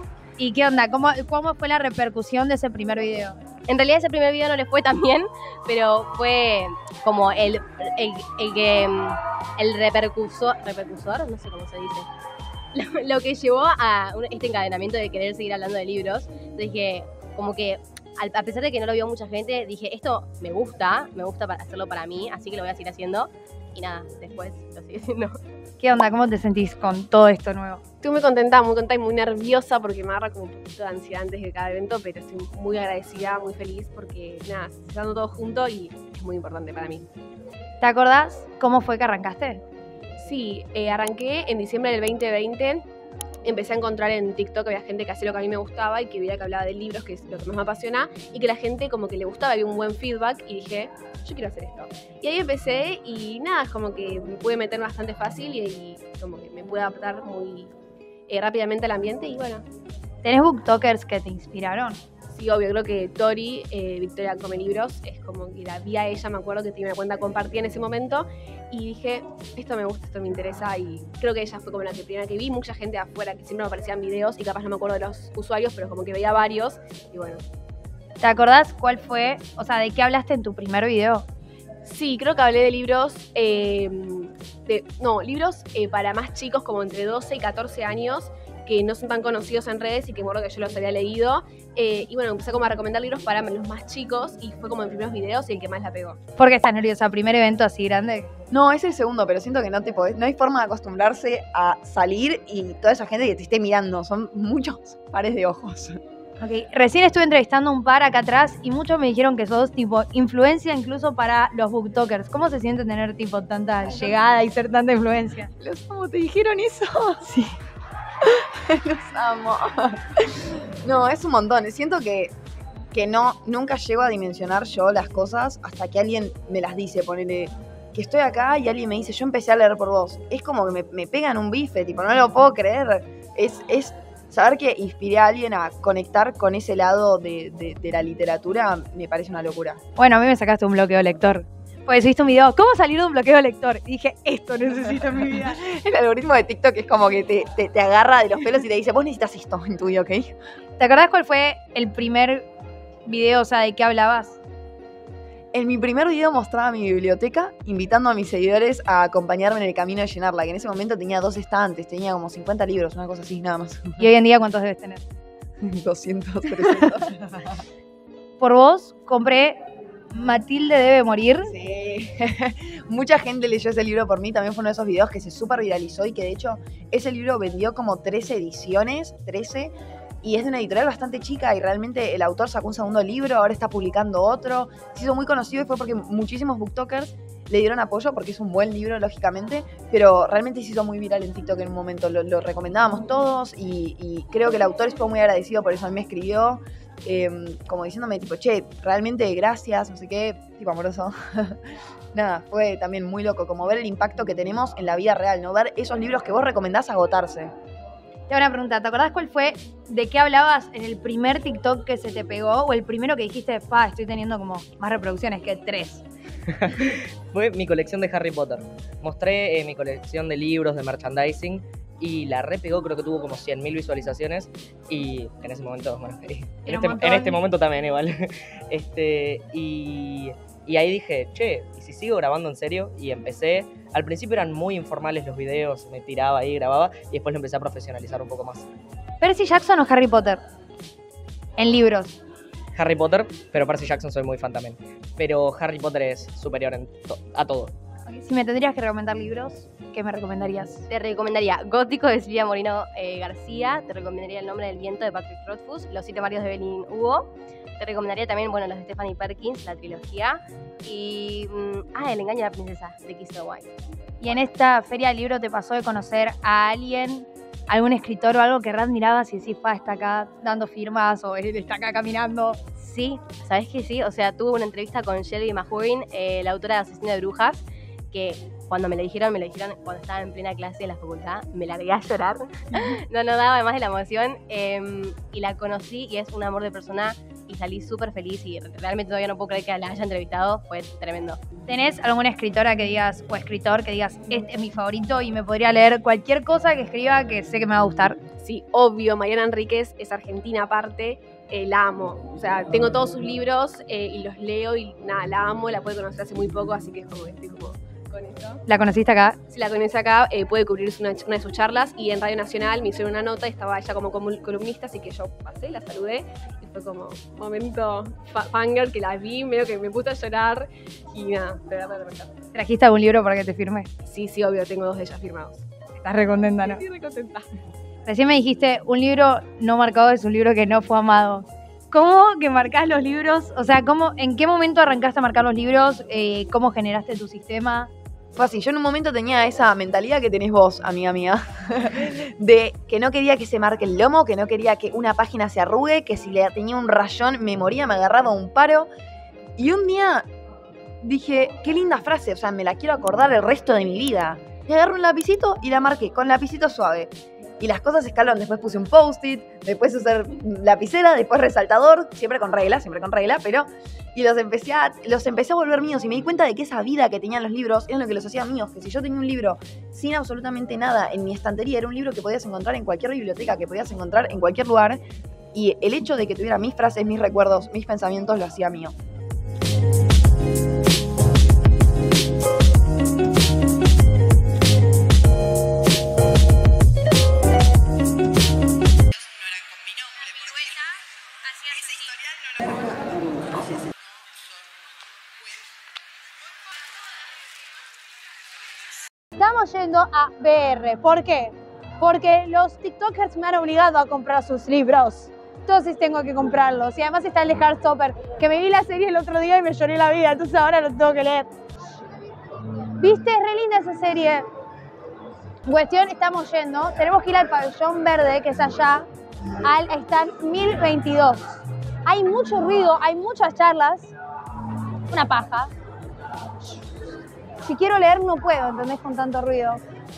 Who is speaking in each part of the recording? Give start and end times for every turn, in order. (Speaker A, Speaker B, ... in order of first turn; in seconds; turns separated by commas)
Speaker A: 0.4-3.4, Speaker B: 3.7-12.1, Speaker B: 12.8-25.3, Speaker A: 25.8-27.8, Speaker C: 28.0-37.1, Speaker A: 37.8-39.6, Speaker C: 40.2-42.8, Speaker C: 43.5-57.7, Speaker C: 58.3-59.6, Speaker A: 60.2-62.0, Speaker C: 62.3-77.4, Speaker A: 78.2-81.3, Speaker C: 81.8-96.2, Speaker A: 96.4-98.3, Speaker D: 98.5-106.0, Speaker A: 106.4-115.5, Speaker D: 115.6-117.3, Speaker A: 117.3-117.5, Speaker D: 118.2-122.3, Speaker D: 122.9-139.8, Speaker A: 140.0-145.6, Speaker D: 145.5-150.3, Speaker A: 150.8-152.5, Speaker A: 153.1-154.4, Speaker D: 155.5-164.1, Speaker A: 164.0-165.0, Speaker D: 165.6-167.4, Speaker A: 168.4-169.6, Speaker A: 170.1-171.5, Speaker D: 171.4-201.6, Speaker D: 202.1-207.5, Speaker A: 208.3-216.0, Speaker E: 216.5-238.7, Speaker A: 226.7-227.4, Speaker A: 239.2-240.4, Speaker A: 241.6-242.2, Speaker E: 242.8-247.7, Speaker A: 248.1-250.9, Speaker B: 250.9-263.7, Speaker A: 264.2-272.7, Speaker B: 272.9-291.4, Speaker A: 291.7-298.2, Speaker C: 298.4-308.5, Speaker A: 308.7-309.4, Speaker C: 309.5-322.3, Speaker A: 322.5-323.9, Speaker C: 324.1-325.6, Speaker A: 326.0-326.8, Speaker C: 326.7-327.4, Speaker A: 328.0-337.9, Speaker D: 338.4-348.9, Speaker D: 349.6-350.3, Speaker D: 351.0-375.0, Speaker D: 375.5-378.9, Speaker A: 390.1-392.7, Speaker A: 399.4-411.5, Speaker A: 413.0-414.4, Speaker A: 415.6-419.1, Speaker A: 419.6-424.1, Speaker A: 425.1-425.7, Speaker A: 427.6-429.8